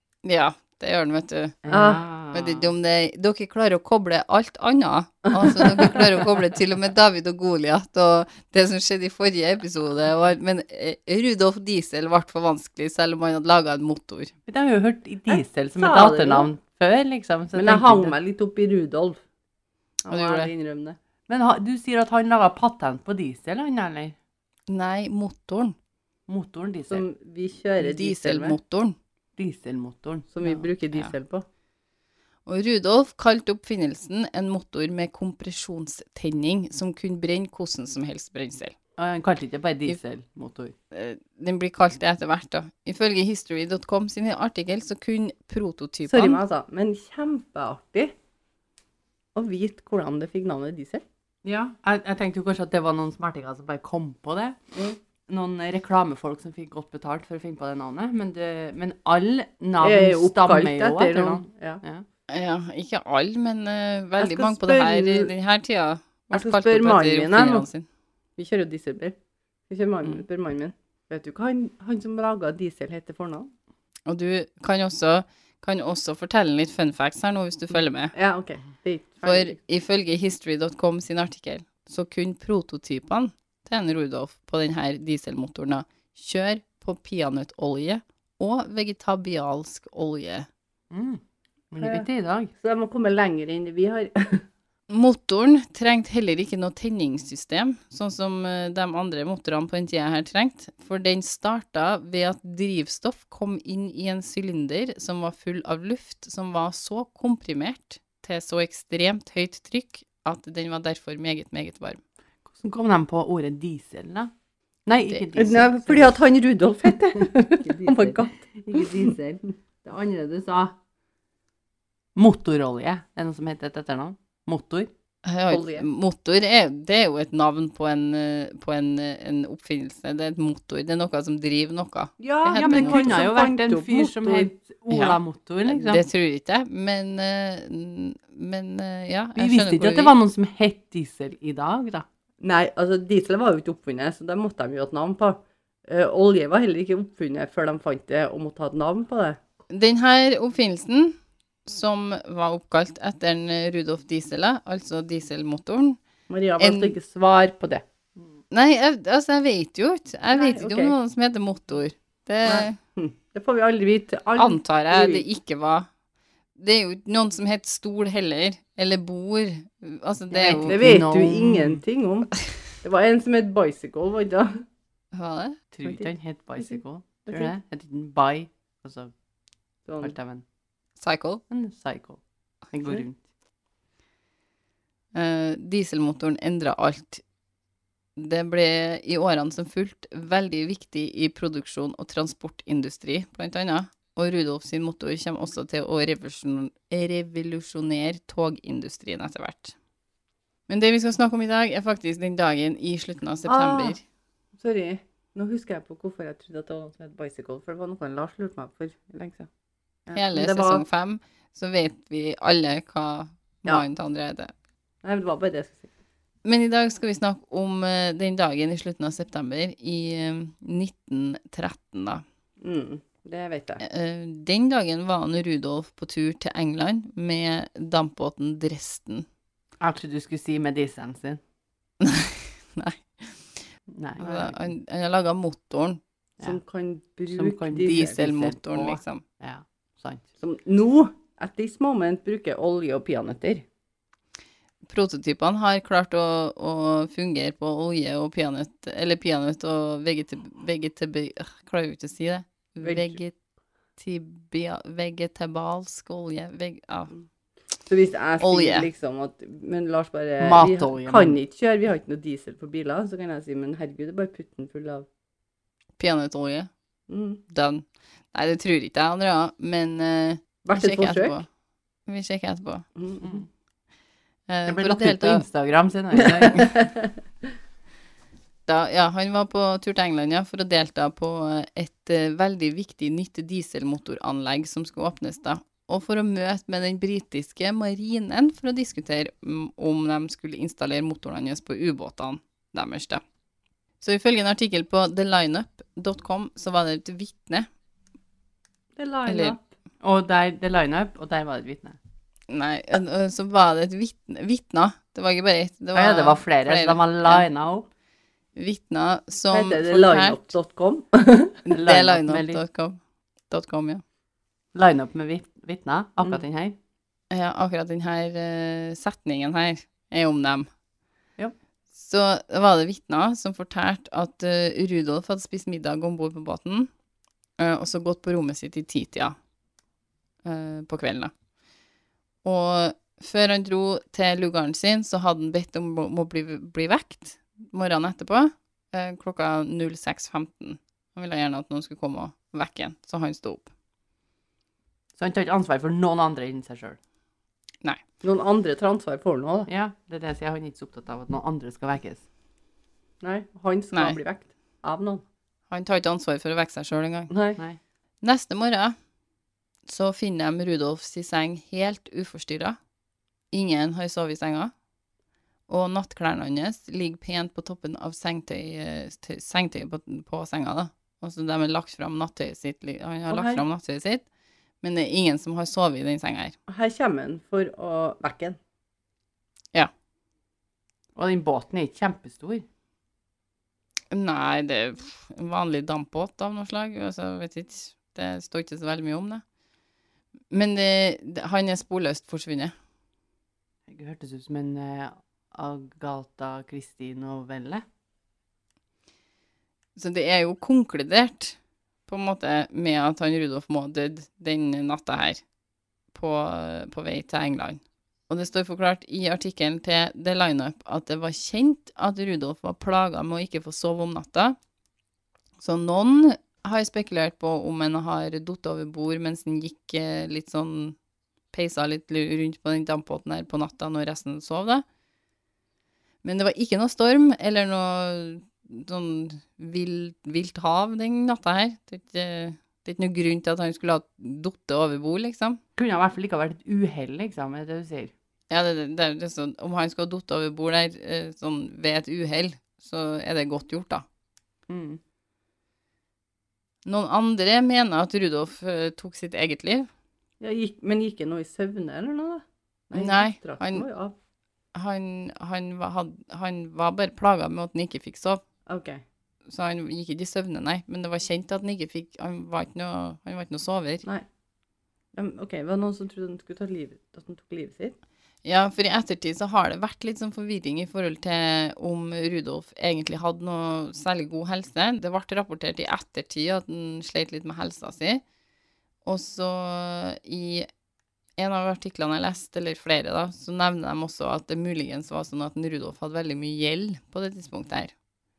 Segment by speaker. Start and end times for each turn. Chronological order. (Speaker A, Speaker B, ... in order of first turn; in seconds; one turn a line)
Speaker A: 0.2-1.6
Speaker B: 1.6-2.7
Speaker C: 1.7-2.0
Speaker A: 2.3-14.3
Speaker C: 5.4-6.0
Speaker B: 14.5-18.1
Speaker C: 15.3-16.5
Speaker C: 17.6-19.2
Speaker C: 20.1-21.0
Speaker A: 20.1-20.5
Speaker B: 21.3-24.1
Speaker A: 24.7-25.8
Speaker B: 26.3-27.0
Speaker C: 26.9-28.6
Speaker A: 27.8-28.9
Speaker B: 29.4-30.3
Speaker C: 30.3-31.4
Speaker A: 30.4-31.1
Speaker A: 32.5-38.8
Speaker B: 39.0-40.8
Speaker A: 40.9-46.4
Speaker C: 46.1-48.1
Speaker C: 49.3-51.0
Speaker B: 51.4-54.6
Speaker B: 55.3-62.1
Speaker C: 59.8-61.8
Speaker A: 62.3-67.9
Speaker C: 64.2-65.3
Speaker C: 66.3-67.7
Speaker C: 68.4-69.2
Speaker C: 69.7-73.5
Speaker A: 74.1-78.1
Speaker C: 78.1-79.6
Speaker A: 79.2-90.5
Speaker B: 90.9-92.5
Speaker C: 91.8-92.1
Speaker C: 92.6-94.4
Speaker A: 94.9-112.0
Speaker B: 112.5-114.3
Speaker B: 114.8-116.2
Speaker C: 115.3-119.2
Speaker B: 117.2-120.7
Speaker B: 122.2-124.9
Speaker A: 125.2-133.1
Speaker C: 125.5-125.8
Speaker C: 132.2-134.5
Speaker B: 132.5-136.1
Speaker A: 134.9-140.1
Speaker B: 139.3-142.1
Speaker C: 142.4-149.4
Speaker A: 149.7-156.0
Speaker C: 156.3-157.8
Speaker A: 156.6-156.9
Speaker A: 158.5-162.8
Speaker C: 160.3-160.9
Speaker C: 162.4-165.2
Speaker A: 164.3-165.9
Speaker A: 166.6-170.8
Speaker B: 170.3-171.8
Speaker C: 170.6-174.6
Speaker A: 175.1-175.6
Speaker B: 175.7-179.1
Speaker C: 175.8-177.6
Speaker C: 179.9-180.2
Speaker B: 180.0-180.4
Speaker A: 181.0-181.4
Speaker B: 181.5-182.2
Speaker B: 182.7-183.2
Speaker A: 185.1-187.2
Speaker A: 188.2-199.7
Speaker A: 200.7-204.0
Speaker B: 203.5-203.9
Speaker C: 204.6-209.5
Speaker C: 210.1-210.8
Speaker A: 210.1-214.5
Speaker C: 215.0-215.9
Speaker A: 216.4-222.2
Speaker C: 222.6-223.8
Speaker A: 223.8-229.3
Speaker B: 229.8-231.4
Speaker A: 232.0-233.7
Speaker B: 233.9-234.6
Speaker A: 234.2-236.0
Speaker C: 236.4-238.2
Speaker B: 237.3-240.2
Speaker A: 237.8-239.2
Speaker C: 240.4-243.7
Speaker A: 244.9-253.3
Speaker C: 252.8-253.2
Speaker A: 254.0-257.1
Speaker C: 257.9-265.1
Speaker A: 258.4-258.9
Speaker B: 260.4-261.4
Speaker A: 266.0-266.7
Speaker C: 267.1-267.4
Speaker A: 267.5-271.5
Speaker C: 270.6-271.4
Speaker A: 272.1-272.9
Speaker C: 272.9-273.4
Speaker A: 274.5-275.4
Speaker B: 274.7-276.8
Speaker C: 276.2-277.1
Speaker A: 278.7-293.2
Speaker A: 294.0-297.7
Speaker C: 299.0-299.6
Speaker A: 299.2-299.6
Speaker B: 300.0-302.0
Speaker A: 302.5-307.5
Speaker B: 305.9-307.9
Speaker A: 308.6-310.5
Speaker C: 309.5-311.6
Speaker A: 311.7-314.0
Speaker B: 311.7-312.6
Speaker B: 314.7-316.8
Speaker A: 317.3-320.7
Speaker A: 321.9-326.9
Speaker A: 327.6-329.4
Speaker A: 330.4-331.3
Speaker A: 332.4-343.7
Speaker B: 345.2-347.0
Speaker C: 348.2-349.7
Speaker B: 349.7-352.2
Speaker C: 353.2-355.2
Speaker A: 353.9-354.2
Speaker A: 355.7-357.3
Speaker C: 357.3-357.6
Speaker A: 358.2-358.9
Speaker A: 359.9-362.8
Speaker A: 363.5-364.7
Speaker A: 365.7-374.2
Speaker C: 373.3-373.6
Speaker A: 374.8-376.6
Speaker C: 376.7-378.6
Speaker B: 381.1-382.6
Speaker A: 384.1-389.4
Speaker A: 390.5-392.7
Speaker B: 393.9-397.8
Speaker A: 399.9-405.4
Speaker A: 406.1-414.6
Speaker A: 415.6-420.9
Speaker A: 421.5-424.8
Speaker A: 426.2-435.6
Speaker B: 435.8-438.1
Speaker A: 438.5-444.1
Speaker B: 444.7-445.0
Speaker A: 446.8-449.9
Speaker C: 450.4-454.1
Speaker A: 452.9-453.9
Speaker A: 454.7-458.4
Speaker C: 458.7-459.0
Speaker A: 459.5-464.1
Speaker C: 465.1-467.9
Speaker A: 468.4-478.2
Speaker A: 479.1-480.7
Speaker A: 481.4-487.9